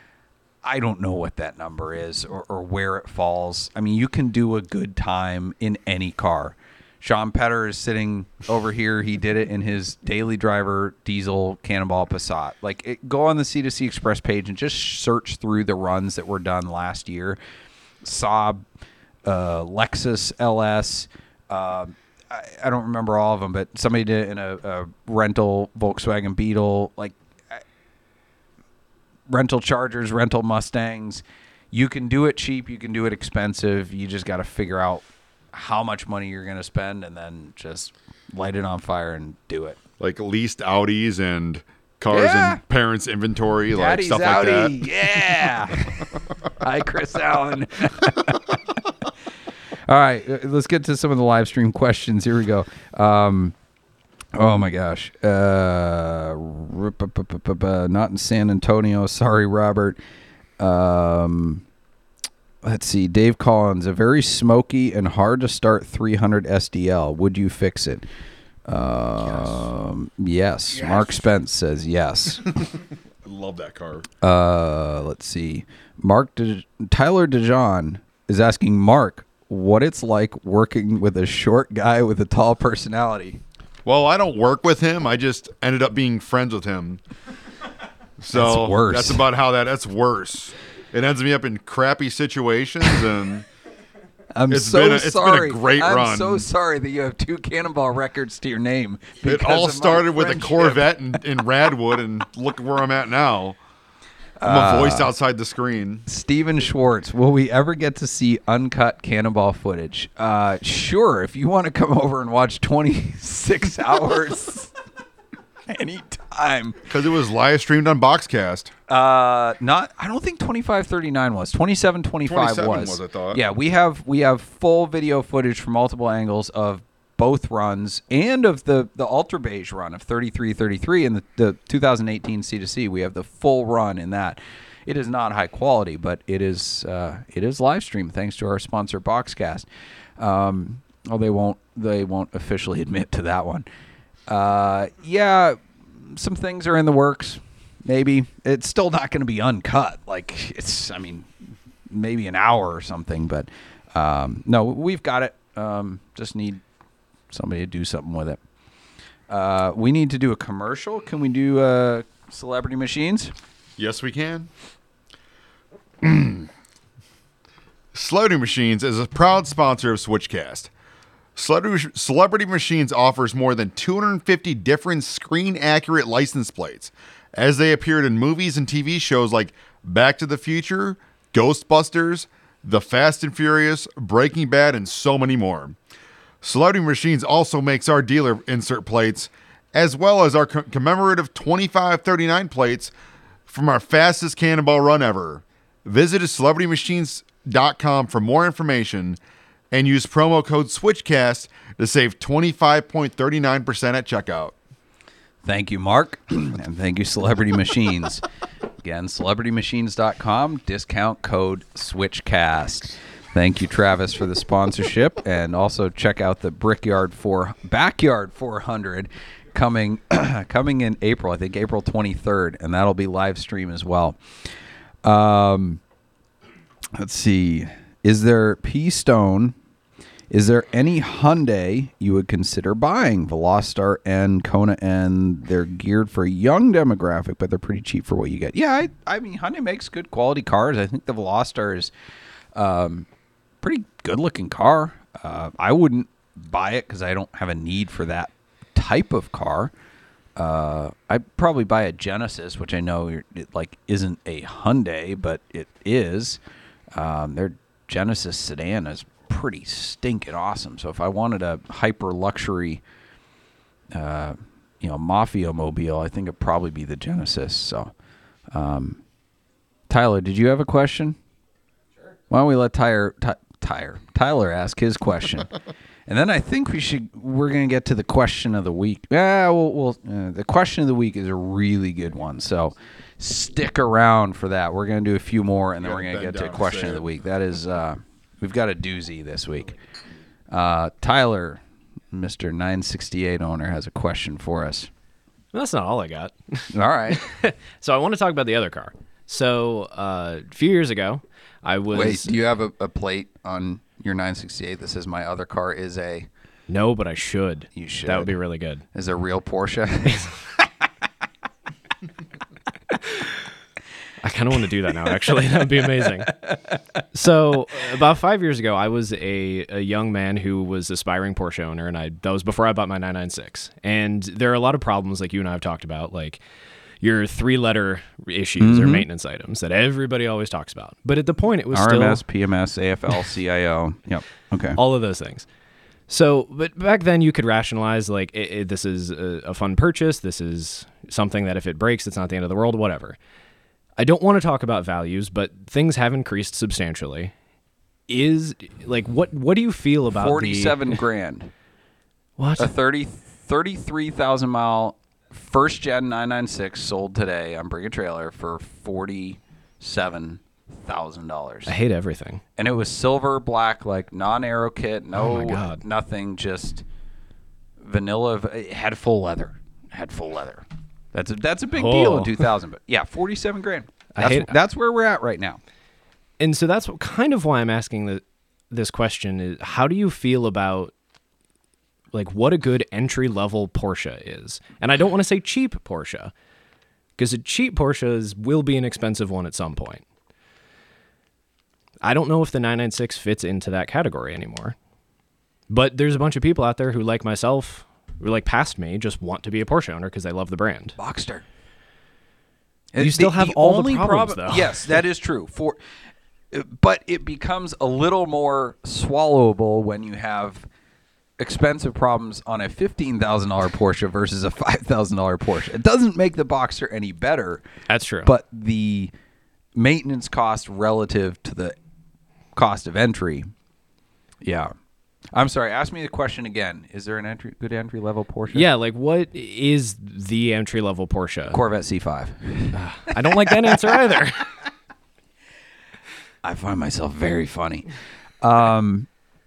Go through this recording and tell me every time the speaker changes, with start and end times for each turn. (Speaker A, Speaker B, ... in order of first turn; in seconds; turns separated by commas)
Speaker A: 0.6-17.4, Speaker A: 18.0-18.6, Speaker A: 19.2-27.6, Speaker A: 29.3-39.8, Speaker B: 40.0-44.9, Speaker A: 42.1-42.6, Speaker A: 43.7-48.9, Speaker A: 49.9-53.5, Speaker A: 54.3-60.0, Speaker A: 60.6-61.6, Speaker A: 62.6-68.0, Speaker A: 68.7-72.5, Speaker B: 69.2-69.6, Speaker B: 70.7-71.1, Speaker B: 72.5-74.1, Speaker A: 74.2-83.4, Speaker B: 83.8-87.0, Speaker B: 88.2-93.5, Speaker A: 88.3-89.2, Speaker A: 94.3-101.2, Speaker B: 94.5-96.5, Speaker B: 99.2-103.6, Speaker A: 104.4-105.1, Speaker B: 104.4-106.0, Speaker A: 106.1-114.7, Speaker A: 115.7-116.8, Speaker B: 116.9-118.7, Speaker A: 118.9-139.7, Speaker B: 122.3-123.4, Speaker A: 140.2-143.7, Speaker A: 144.3-151.3, Speaker A: 151.9-156.6, Speaker A: 157.3-158.4, Speaker A: 159.3-163.3, Speaker B: 163.8-164.5, Speaker B: 166.0-166.5, Speaker B: 167.9-170.7, Speaker B: 171.3-185.8, Speaker B: 186.4-192.9, Speaker B: 193.5-199.2, Speaker B: 199.7-204.5, Speaker A: 205.4-208.2, Speaker A: 208.8-224.5, Speaker A: 225.0-225.8, Speaker A: 226.9-229.5, Speaker A: 230.3-241.9, Speaker A: 242.5-243.1, Speaker A: 243.6-249.7, Speaker A: 250.3-256.4, Speaker A: 256.9-262.8, Speaker A: 263.9-267.9, Speaker A: 268.5-269.0, Speaker A: 269.9-271.2, Speaker A: 272.3-275.5, Speaker A: 276.1-289.8, Speaker B: 285.8-287.1, Speaker A: 290.5-294.9, Speaker C: 295.5-302.3, Speaker A: 296.7-297.2, Speaker A: 301.9-306.3, Speaker C: 306.7-308.8, Speaker A: 307.7-308.4, Speaker A: 308.9-310.7, Speaker C: 314.2-316.4, Speaker A: 316.3-316.8, Speaker C: 317.1-326.4, Speaker C: 327.0-332.2, Speaker A: 328.6-329.0, Speaker A: 331.7-334.8, Speaker C: 334.8-335.5, Speaker C: 336.1-343.2, Speaker C: 344.0-347.3, Speaker C: 348.1-351.0, Speaker A: 350.1-351.5, Speaker C: 352.4-352.7, Speaker A: 352.6-361.7, Speaker C: 361.7-362.4, Speaker A: 362.6-366.8, Speaker C: 365.1-365.8, Speaker A: 367.8-375.6, Speaker C: 371.8-372.5, Speaker C: 374.1-374.5, Speaker C: 376.4-380.9, Speaker C: 382.1-386.3, Speaker C: 387.2-390.0, Speaker C: 392.0-394.8, Speaker C: 395.7-400.9, Speaker A: 401.0-401.4, Speaker A: 402.9-405.8, Speaker C: 403.0-405.0, Speaker A: 406.5-410.7, Speaker A: 411.4-417.6, Speaker C: 417.9-418.3, Speaker A: 418.2-419.1, Speaker A: 419.7-421.8, Speaker A: 422.5-423.5, Speaker A: 424.4-424.7, Speaker A: 425.3-428.7, Speaker C: 428.5-431.6, Speaker A: 431.5-433.1, Speaker C: 432.7-434.5, Speaker A: 436.4-439.1